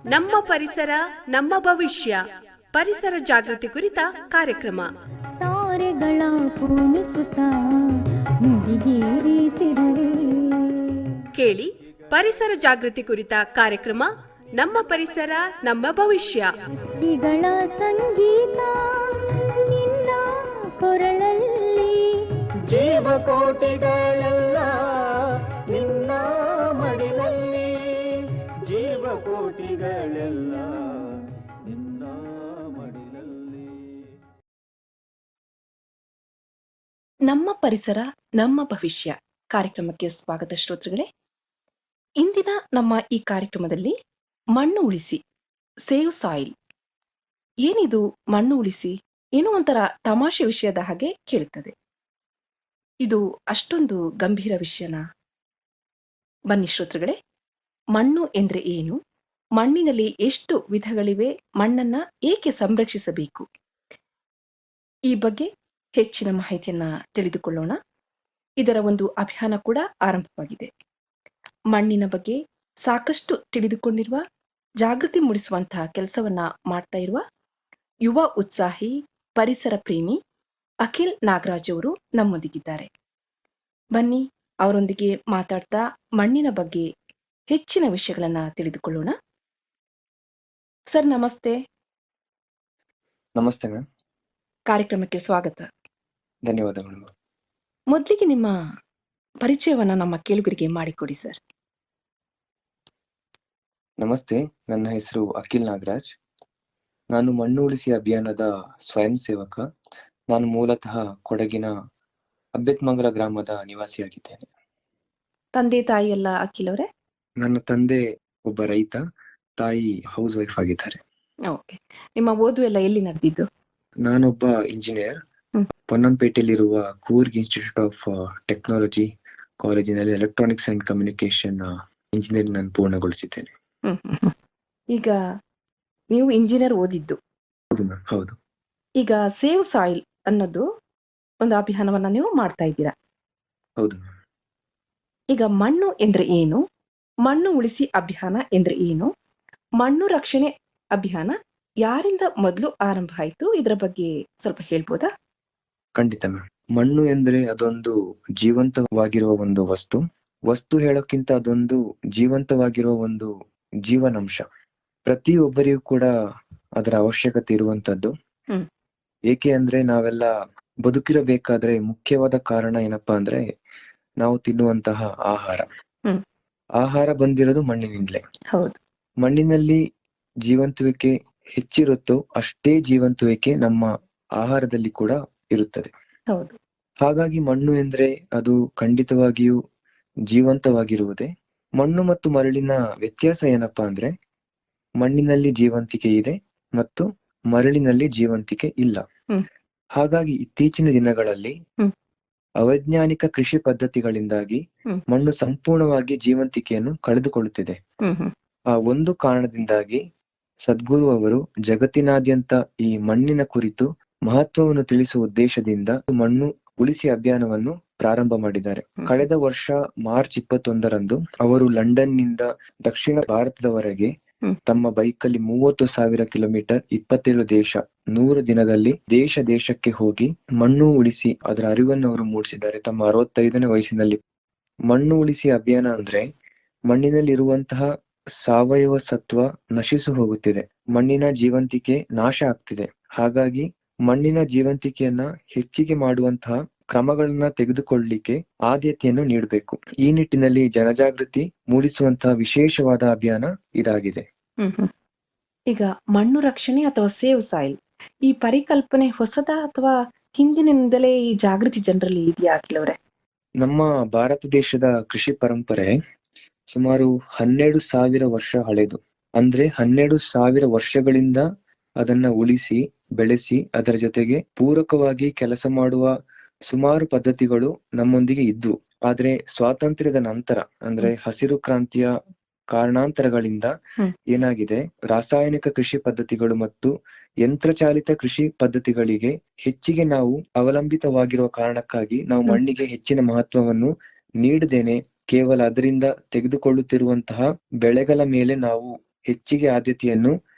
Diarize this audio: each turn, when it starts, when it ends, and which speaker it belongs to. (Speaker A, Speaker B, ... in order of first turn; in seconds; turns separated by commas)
Speaker A: 0.1-2.2, Speaker A: 2.7-4.9, Speaker B: 5.4-7.5, Speaker B: 8.4-11.0, Speaker A: 11.3-16.5, Speaker B: 16.9-22.3, Speaker C: 22.6-34.0, Speaker D: 37.3-41.1, Speaker D: 42.2-43.9, Speaker D: 44.5-45.2, Speaker D: 45.9-46.5, Speaker D: 47.6-51.7, Speaker D: 53.0-55.0, Speaker D: 56.5-57.2, Speaker D: 58.0-59.0, Speaker D: 59.6-63.5, Speaker D: 65.1-67.8, Speaker D: 68.6-70.7, Speaker D: 71.7-74.2, Speaker D: 74.8-77.2, Speaker D: 78.0-80.2, Speaker D: 80.8-82.9, Speaker D: 84.0-86.8, Speaker D: 87.5-89.1, Speaker D: 90.9-91.5, Speaker E: 93.4-93.8, Speaker D: 94.7-95.7, Speaker E: 96.5-97.1, Speaker D: 97.9-98.5, Speaker D: 99.4-101.4, Speaker E: 104.0-106.1, Speaker E: 107.1-109.6, Speaker E: 110.3-111.7, Speaker E: 112.6-114.5, Speaker D: 115.6-116.8, Speaker E: 117.4-119.0, Speaker E: 119.6-121.0, Speaker D: 121.5-123.5, Speaker E: 124.0-125.2, Speaker E: 125.9-129.1, Speaker E: 129.6-133.5, Speaker D: 133.9-134.3, Speaker D: 136.1-137.2, Speaker E: 137.7-138.3, Speaker D: 139.0-140.6, Speaker D: 141.4-142.9, Speaker E: 143.8-144.1, Speaker D: 145.3-146.6, Speaker D: 147.2-149.1, Speaker D: 149.8-155.1, Speaker E: 156.0-163.3, Speaker E: 163.9-164.4, Speaker E: 165.1-166.1, Speaker E: 166.8-168.1, Speaker E: 169.3-170.3, Speaker E: 170.8-173.4, Speaker E: 174.2-175.7, Speaker E: 176.8-178.2, Speaker E: 179.2-179.8, Speaker E: 180.4-183.9, Speaker E: 184.4-185.9, Speaker E: 187.0-189.6, Speaker E: 190.3-194.1, Speaker E: 195.0-199.0, Speaker E: 200.0-201.6, Speaker E: 202.6-207.8, Speaker D: 208.1-208.3, Speaker E: 208.7-210.0, Speaker E: 210.7-224.1, Speaker E: 224.7-234.2, Speaker E: 234.9-236.2, Speaker E: 236.9-237.8, Speaker E: 238.4-254.2, Speaker D: 254.6-254.9, Speaker D: 255.7-262.9, Speaker E: 263.6-265.9, Speaker E: 266.7-271.4, Speaker E: 272.0-276.1, Speaker E: 276.7-282.1, Speaker E: 282.7-283.7, Speaker E: 284.3-286.9, Speaker E: 287.4-300.3